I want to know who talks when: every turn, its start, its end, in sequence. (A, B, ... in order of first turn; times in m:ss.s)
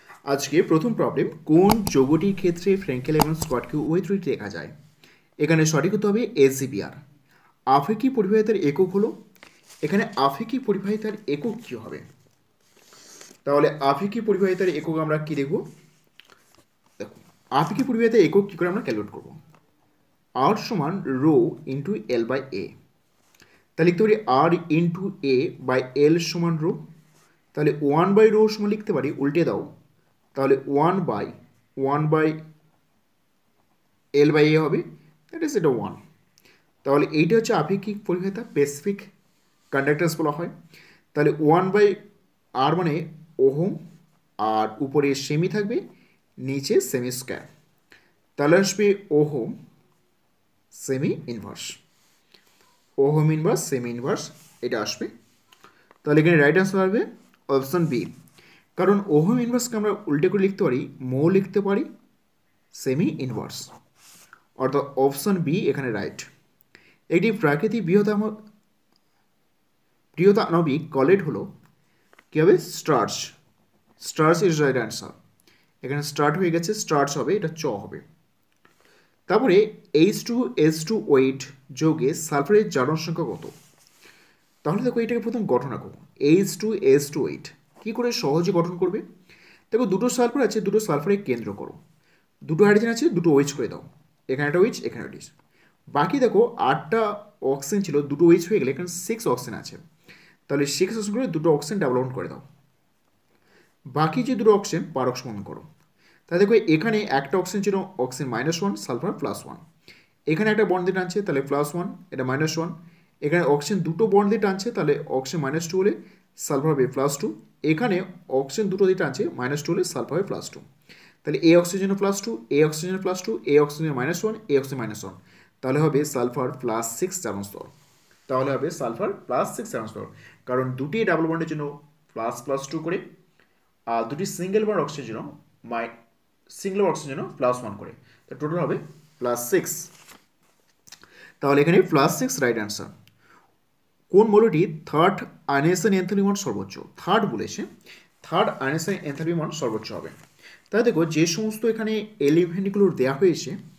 0:00.3-0:04.7 A
0:05.4-0:07.0 A
0:07.7-0:09.1 A
0:09.8-0:12.0 A
0:13.5-0:15.6 A
0:17.0-0:19.4 A
0:20.4-0:22.7 A
0:23.8-0:26.8 A
0:27.5-0:29.7 A
0:30.4-0:32.3 A
0:34.2-0:36.0 A
0:36.8-0:39.1 A
0:39.7-0:40.5 A
0:41.1-0:42.0 A
0:42.6-0:43.8 A
0:44.4-0:45.8 A
0:46.4-0:47.5 A
0:48.4-0:49.5 A
0:50.7-0:51.8 A
0:53.0-0:55.1 A
0:56.0-0:58.1 A
0:58.8-1:01.9 A
1:02.7-1:03.7 A
1:04.6-1:06.3 A
1:07.1-1:08.3 A
1:10.2-1:11.5 A
1:12.3-1:13.4 A
1:14.0-1:15.2 A
1:15.8-1:18.0 A
1:19.3-1:23.5 A
1:24.6-1:29.0 A
1:29.7-1:31.8 A
1:32.5-1:35.3 A
1:35.9-1:39.8 A
1:40.5-1:42.4 A
1:44.0-1:45.6 A
1:46.3-1:49.6 A
1:50.3-2:00.6 A
2:01.2-2:07.7 A
2:08.3-2:13.0 A
2:13.9-2:15.9 A
2:16.5-2:19.9 A
2:21.4-2:22.9 A
2:24.1-2:27.7 A
2:28.2-2:30.2 A
2:30.7-2:33.6 A